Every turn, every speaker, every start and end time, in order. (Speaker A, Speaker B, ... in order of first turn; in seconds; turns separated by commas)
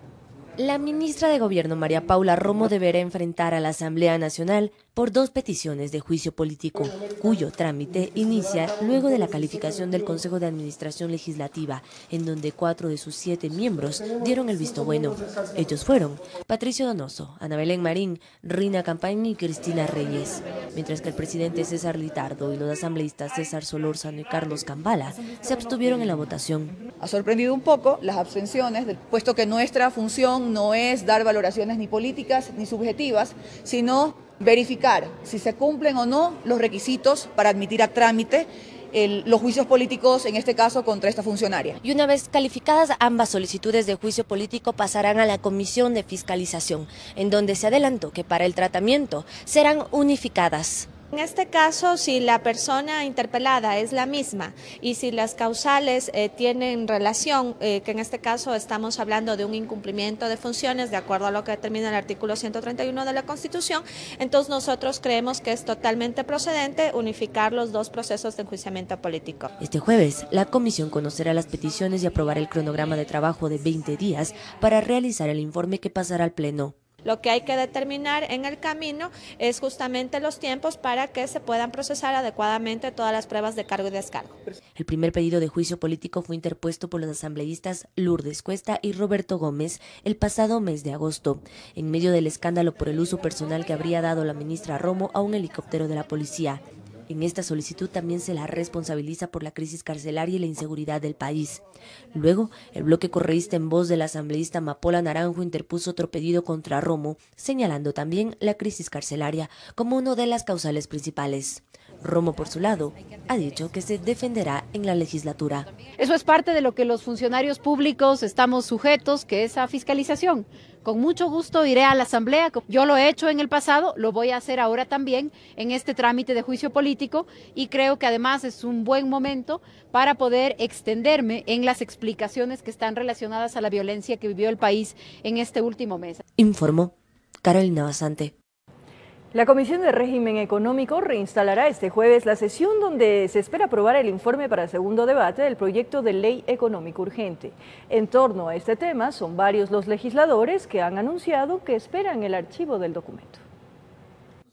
Speaker A: 0.6-26.8, Speaker B: 27.0-41.8, Speaker A: 41.8-50.9, Speaker C: 51.1-69.5, Speaker A: 69.6-76.8, Speaker C: 77.0-84.4, Speaker A: 84.8-101.6, Speaker A: 102.1-115.7, Speaker D: 116.0-136.2, Speaker A: 136.4-138.3, Speaker E: 139.3-153.4